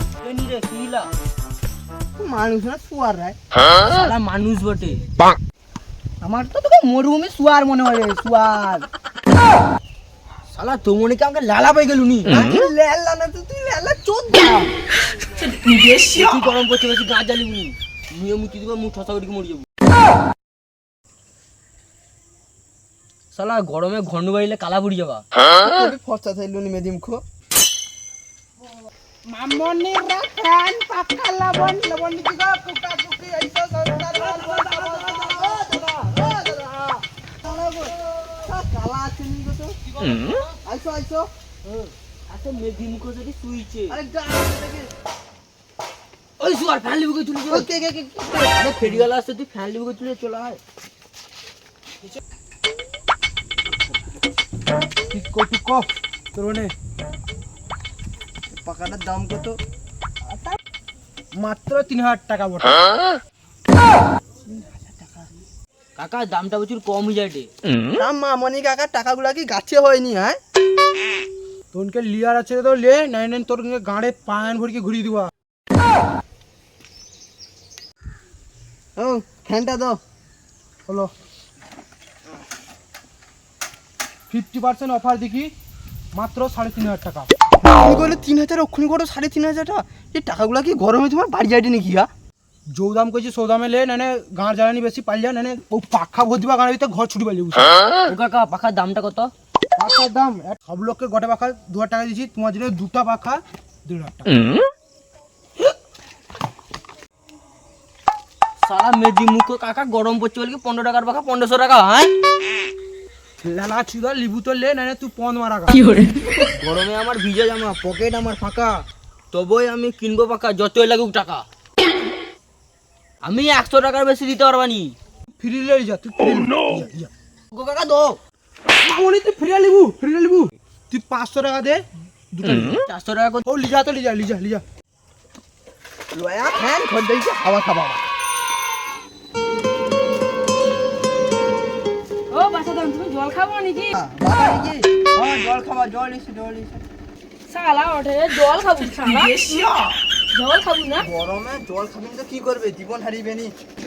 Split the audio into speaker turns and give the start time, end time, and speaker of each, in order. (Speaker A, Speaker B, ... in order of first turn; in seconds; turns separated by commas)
Speaker A: 0.2-1.1, Speaker B: 2.2-3.4, Speaker A: 3.9-5.0, Speaker B: 6.2-7.4, Speaker B: 8.3-8.8, Speaker A: 10.5-12.4, Speaker B: 12.3-14.7, Speaker A: 16.0-19.6, Speaker A: 23.3-25.2, Speaker B: 25.6-27.2, Speaker C: 29.3-35.3, Speaker B: 34.1-39.8, Speaker B: 40.6-41.3, Speaker A: 41.7-44.0, Speaker B: 43.9-44.9, Speaker A: 46.4-47.7, Speaker B: 47.5-49.0, Speaker A: 48.5-50.6, Speaker C: 55.1-56.7, Speaker B: 58.5-59.5, Speaker C: 61.4-62.8, Speaker B: 64.5-65.3, Speaker A: 66.0-67.5, Speaker B: 68.0-70.4, Speaker C: 71.7-75.3, Speaker B: 79.0-80.0, Speaker C: 80.9-81.1, Speaker C: 84.3-85.5, Speaker C: 86.1-87.3, Speaker B: 87.6-92.1, Speaker C: 92.8-97.8, Speaker A: 98.1-99.3, Speaker C: 99.8-104.4, Speaker A: 108.6-112.1, Speaker C: 113.4-115.9, Speaker A: 116.5-121.4, Speaker A: 123.2-124.9, Speaker C: 125.4-127.1, Speaker A: 127.5-128.2, Speaker C: 128.8-132.8, Speaker A: 132.4-133.4, Speaker C: 133.4-134.6, Speaker B: 136.1-138.1, Speaker D: 142.3-143.9, Speaker B: 143.9-146.8, Speaker D: 147.5-149.6, Speaker D: 150.3-151.1, Speaker B: 151.0-153.5